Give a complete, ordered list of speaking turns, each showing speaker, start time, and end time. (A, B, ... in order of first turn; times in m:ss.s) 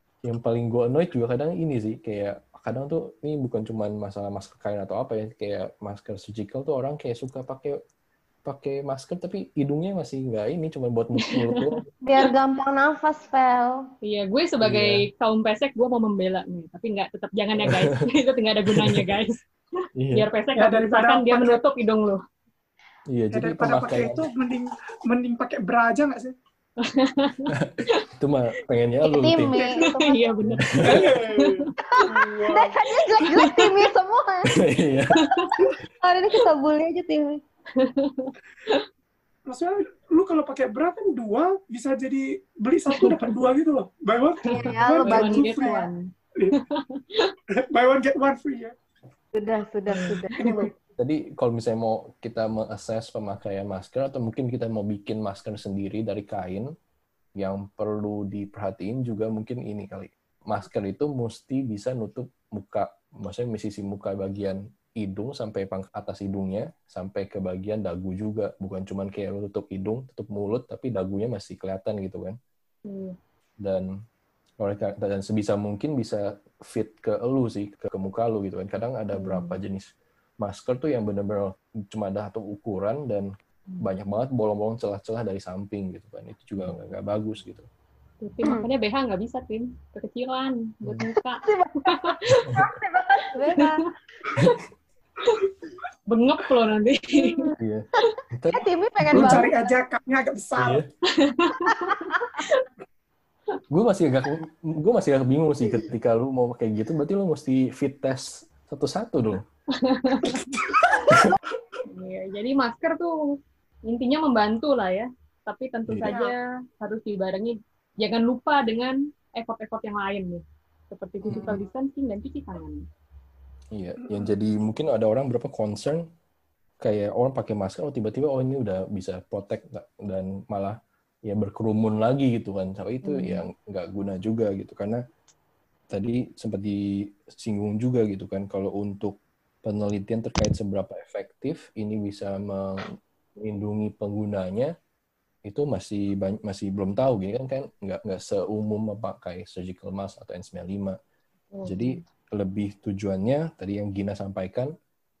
0:00.2-0:07.8 A
0:08.4-0:11.8 A
0:11.2-0:11.7 B
0:12.0-0:13.9 C
0:14.0-0:19.4 B
0:14.6-0:15.0 A
0:17.6-0:18.0 A
0:18.7-0:19.2 A
0:20.0-0:20.3 A
0:20.1-0:22.2 B
0:20.5-0:21.6 D
0:23.1-0:24.3 A
0:23.3-0:26.3 D
0:26.8-0:28.0 B
0:27.5-0:29.7 A
0:29.0-0:30.5 C
0:29.8-0:32.0 B
0:30.5-0:31.1 A
0:30.8-0:32.8 D
0:31.9-0:34.6 C
0:33.2-0:33.8 B
0:34.5-0:35.3 A
0:35.1-0:35.7 B
0:35.5-0:37.4 C
0:37.8-0:38.8 B
0:39.5-0:46.6 D
0:42.9-0:43.3 B
0:44.4-0:47.3 B
0:44.5-0:45.8 C
0:47.5-0:48.7 D
0:49.3-0:50.7 C
0:49.9-0:50.2 B
0:50.3-0:50.7 D
0:51.0-0:56.7 A
0:57.4-1:12.4 A
1:12.9-1:13.1 B
1:13.6-1:14.0 A
1:14.6-1:27.7 A
1:19.1-1:19.6 B
1:28.2-1:32.6 B
1:31.2-1:33.8 C
1:33.5-1:33.9 B
1:34.4-1:34.6 A
1:36.1-1:37.4 B
1:37.1-1:37.6 C
1:37.6-1:39.5 A
1:38.5-1:39.7 C
1:39.1-1:40.8 D
1:40.6-1:40.9 A
1:41.2-1:42.7 B
1:41.6-1:42.4 C
1:43.7-1:49.4 A
1:49.8-1:50.4 B
1:50.2-1:51.2 D
1:51.9-2:02.8 B
1:55.9-1:56.1 A
1:56.0-1:56.3 D
2:01.3-2:01.6 C
2:03.7-2:06.1 A
2:04.0-2:04.3 D
2:06.8-2:15.0 A
2:13.0-2:13.4 B
2:15.9-2:22.8 A
2:23.4-2:24.7 A
2:25.4-2:31.0 A
2:31.5-2:32.0 B
2:31.6-2:34.7 A